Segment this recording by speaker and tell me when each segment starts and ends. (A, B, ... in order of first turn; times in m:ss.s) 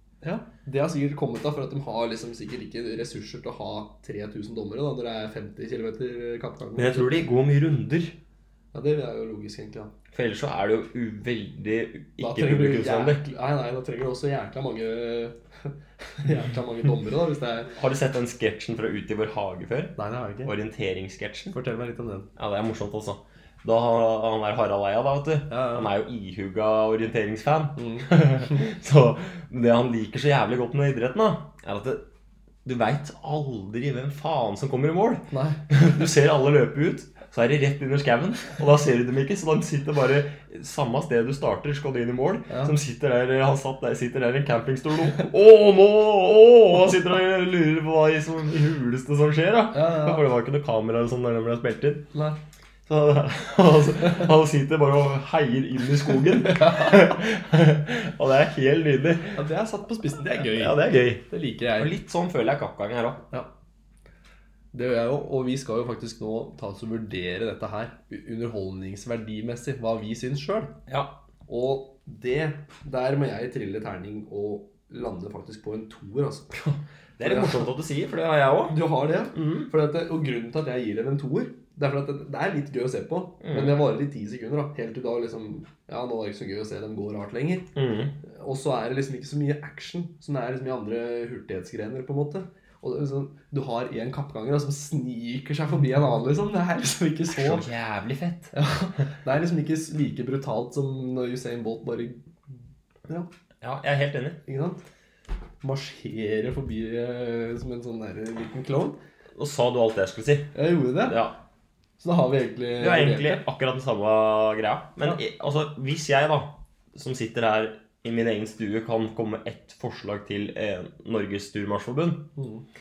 0:00.2-0:07.2 A
0:06.8-0:08.2 B
0:08.7-0:09.9 A
0:10.1-0:13.3 B
0:12.2-0:17.7 A
0:17.8-0:21.6 B
0:20.0-0:20.5 A
0:21.5-0:22.3 A
0:22.4-0:32.0 B
0:25.5-0:25.9 A
0:27.8-0:28.6 A
0:32.6-0:52.1 B
0:35.3-0:35.6 A
0:42.5-0:42.8 A
0:49.7-0:50.2 A
0:52.1-0:52.4 A
0:52.9-0:59.4 B
0:56.5-0:57.1 A
0:59.4-1:01.9 A
1:00.4-1:01.2 B
1:01.8-1:03.2 B
1:04.7-1:10.8 A
1:10.9-1:11.2 B
1:11.5-1:16.6 A
1:16.5-1:18.8 B
1:17.2-1:17.8 A
1:18.7-1:37.7 A
1:19.4-1:19.7 B
1:23.4-1:23.8 B
1:27.8-1:28.1 B
1:37.3-1:38.5 B
1:38.5-1:42.4 A
1:43.6-1:44.4 B
1:44.4-1:44.8 A
1:45.6-1:49.0 A
1:49.4-1:50.5 B
1:50.6-1:51.2 A
1:51.0-1:51.4 B
1:52.0-1:53.4 A
1:52.8-2:02.3 B
2:02.4-2:02.6 A